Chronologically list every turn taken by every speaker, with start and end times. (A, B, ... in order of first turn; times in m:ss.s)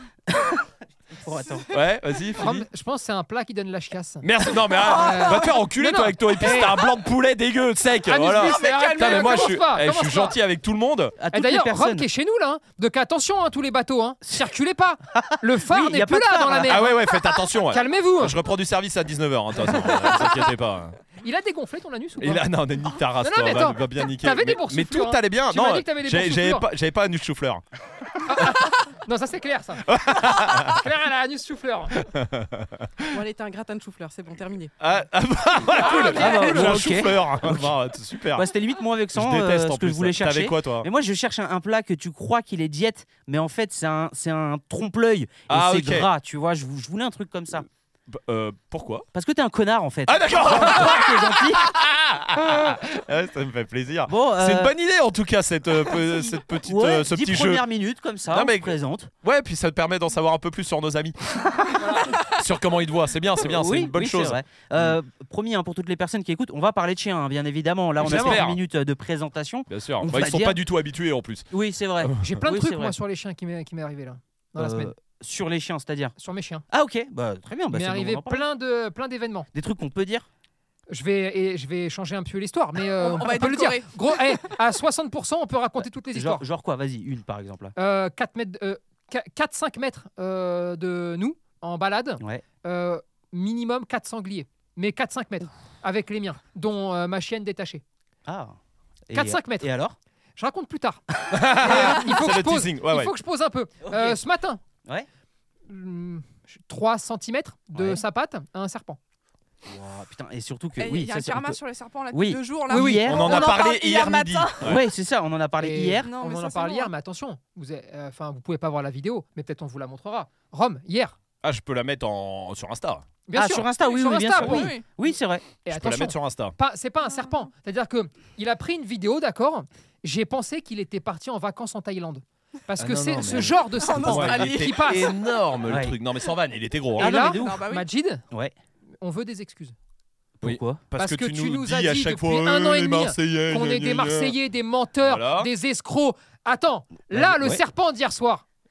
0:00.3-0:01.7 A
0:01.7-0:02.7 B
0:02.4-0:04.2 C
0:04.2-0:11.2 B
0:04.8-0:06.8 C
0:04.8-0:05.4 D
0:08.0-0:10.4 C
0:08.4-0:09.6 E
0:11.2-0:12.1 A
0:11.3-0:17.0 C
0:15.1-0:16.8 A
0:16.6-0:21.0 B
0:17.7-0:18.4 C
0:21.2-0:22.5 C
0:22.2-0:27.6 B
0:23.2-0:26.6 C
0:28.2-0:30.0 C
0:29.9-0:30.8 B
0:30.6-0:32.0 C
0:32.0-0:33.1 B
0:33.1-0:34.7 D
0:34.8-0:38.5 B
0:35.8-0:36.7 C
0:35.9-0:36.4 E
0:36.1-0:37.8 A
0:38.3-0:47.6 A
0:39.1-0:40.9 B
0:45.5-0:46.1 B
0:48.1-0:49.0 B
0:49.1-0:51.6 A
0:50.0-0:57.6 B
0:54.1-0:54.7 A
0:56.6-0:59.1 A
0:58.3-1:01.2 B
1:01.8-1:02.2 C
1:02.1-1:05.0 B
1:03.4-1:10.6 A
1:08.0-1:08.6 B
1:08.0-1:08.4 C
1:09.7-1:11.5 B
1:11.5-1:13.0 A
1:12.0-1:12.3 B
1:12.2-1:14.9 C
1:14.6-1:16.2 A
1:16.2-1:16.6 C
1:16.7-1:18.4 A
1:17.7-1:19.5 C
1:19.5-1:20.3 A
1:20.9-1:26.4 C
1:23.0-1:24.4 E
1:25.8-1:27.7 A
1:27.8-1:37.8 C
1:32.2-1:32.4 A
1:38.2-1:38.6 A
1:39.1-1:40.0 A
1:39.1-1:39.7 C
1:40.4-1:44.6 C
1:41.3-1:43.1 B
1:43.8-1:44.2 A
1:45.7-1:49.0 C
1:47.7-1:48.0 A
1:49.6-1:51.6 A
1:50.8-1:54.8 E
1:52.1-1:53.5 A
1:52.7-1:53.0 C
1:53.0-1:54.8 B
1:54.6-1:56.1 A
1:55.6-2:01.2 C
1:56.0-1:56.9 E
1:56.2-1:56.9 D
2:01.4-2:03.0 B
2:03.3-2:04.7 C
2:03.3-2:05.4 A
2:04.4-2:04.8 E
2:05.6-2:15.1 C
2:05.7-2:06.6 B
2:12.8-2:17.3 B
2:13.7-2:15.2 E
2:15.7-2:16.0 A
2:17.0-2:17.6 A
2:17.0-2:18.2 C
2:17.3-2:17.9 E
2:19.0-2:19.7 C
2:20.4-2:20.8 A
2:20.4-2:24.4 B
2:21.0-2:28.4 C
2:25.0-2:25.5 B
2:27.1-2:27.6 A